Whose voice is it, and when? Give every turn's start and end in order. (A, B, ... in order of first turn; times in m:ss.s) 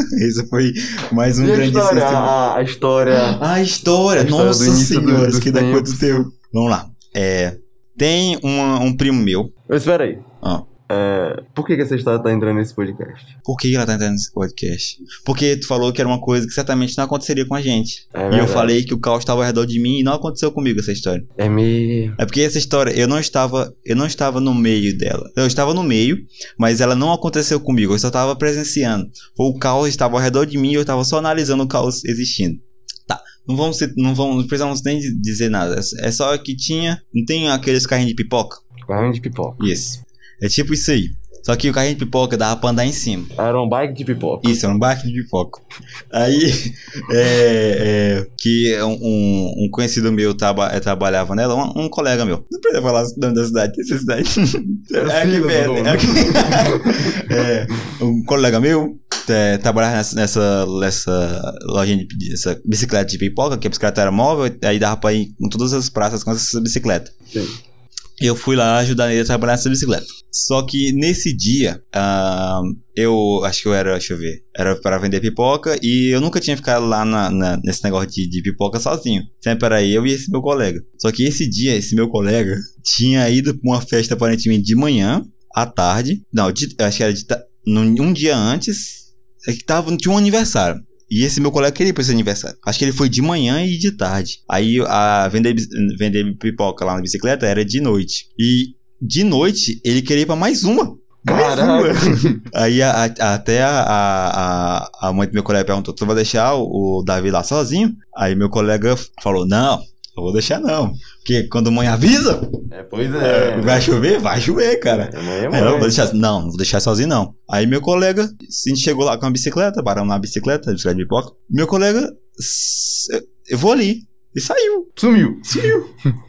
0:00.2-0:02.4 A
0:01.4-0:03.4 B
0:03.2-0:09.5 A
0:04.2-0:06.3 B
0:09.7-0:10.2 B
0:10.8-0:13.3 B
0:13.5-0:21.3 A
0:18.1-0:18.8 B
0:21.4-0:22.2 B
0:22.2-0:38.6 A
0:38.9-0:39.6 B
0:39.6-0:43.3 A
0:43.4-0:44.6 B
0:44.4-1:07.1 A
0:54.9-0:57.5 B
1:08.2-1:52.5 A
1:41.3-1:42.4 B
1:52.7-1:53.9 B
1:53.2-2:04.9 A
1:54.9-1:56.0 B
2:05.0-2:05.9 B
2:05.5-2:05.8 A